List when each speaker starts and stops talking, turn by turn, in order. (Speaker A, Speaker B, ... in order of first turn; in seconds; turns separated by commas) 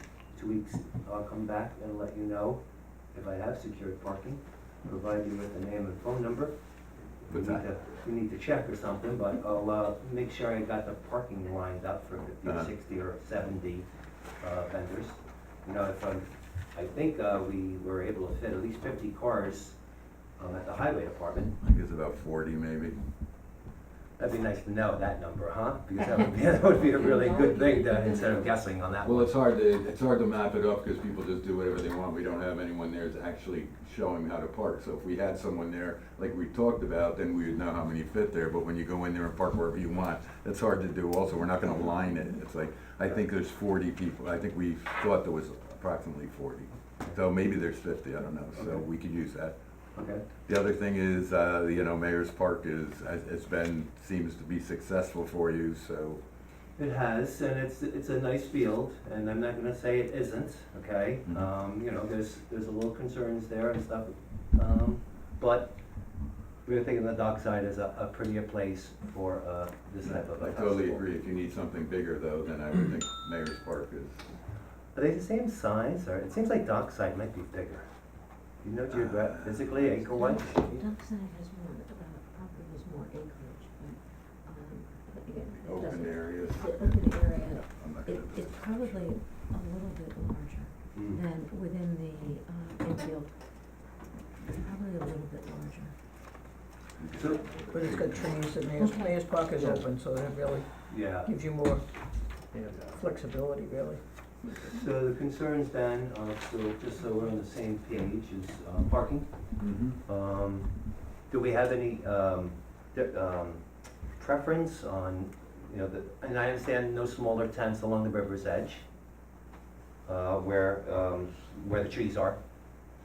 Speaker A: 0.3-2.6, Speaker A: 3.1-6.5, Speaker A: 7.2-13.8, Speaker B: 7.3-7.7, Speaker B: 12.4-12.7, Speaker A: 14.4-19.8, Speaker A: 20.4-21.5, Speaker B: 21.6-23.0, Speaker A: 24.2-29.3, Speaker C: 26.1-28.5, Speaker B: 29.0-49.5, Speaker A: 48.5-48.8, Speaker A: 50.0-50.2, Speaker B: 50.4-56.2, Speaker A: 56.8-65.7, Speaker A: 66.6-71.0, Speaker B: 70.3-74.2, Speaker A: 74.9-77.8, Speaker A: 78.6-80.8, Speaker B: 78.9-79.8, Speaker C: 80.0-95.9, Speaker B: 85.6-89.0, Speaker A: 90.9-91.2, Speaker B: 97.0-98.3, Speaker A: 97.1-97.4, Speaker D: 97.7-100.7, Speaker C: 98.8-99.2, Speaker A: 100.9-101.3, Speaker D: 101.2-101.8, Speaker D: 102.8-104.0, Speaker A: 104.6-109.3, Speaker B: 109.6-110.0, Speaker A: 110.0-110.7, Speaker A: 111.3-113.6, Speaker A: 114.2-118.8, Speaker A: 120.0-122.4